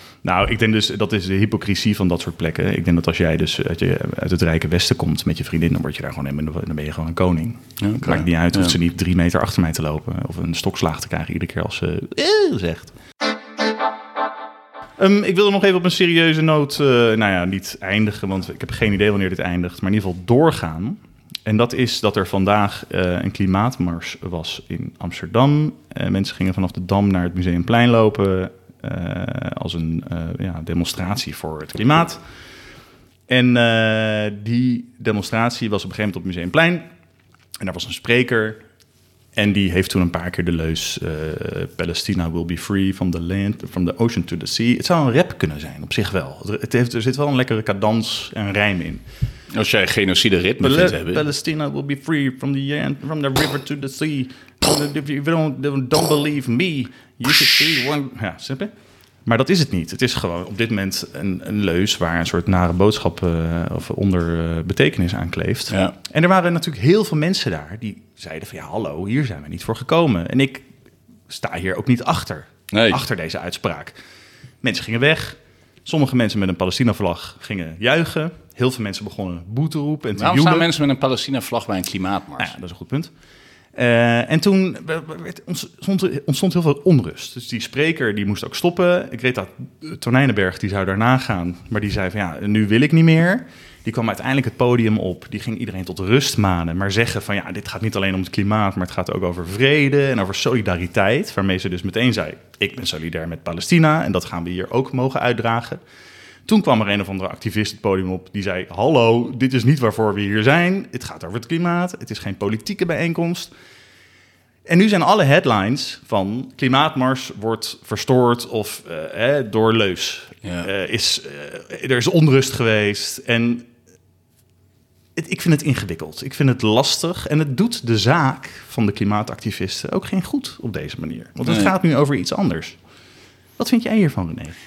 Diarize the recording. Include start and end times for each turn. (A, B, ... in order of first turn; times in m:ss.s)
0:00.2-0:12.9 A
0:07.8-0:08.8 B
0:15.0-0:32.2 A
0:33.3-0:36.9 A
0:37.6-0:38.6 A
0:39.4-0:49.0 A
0:49.5-0:51.2 B
0:50.6-0:58.7 A
0:59.2-1:10.7 A
1:05.7-1:06.0 B
1:11.3-1:14.0 A
1:12.7-1:13.0 B
1:14.6-1:20.7 A
1:20.2-1:22.6 B
1:22.4-1:23.1 A
1:23.8-1:45.8 A
1:46.5-1:53.5 A
1:54.7-2:03.7 A
2:00.4-2:00.7 B
2:05.2-2:12.8 A
2:11.4-2:11.7 B
2:13.6-2:14.6 A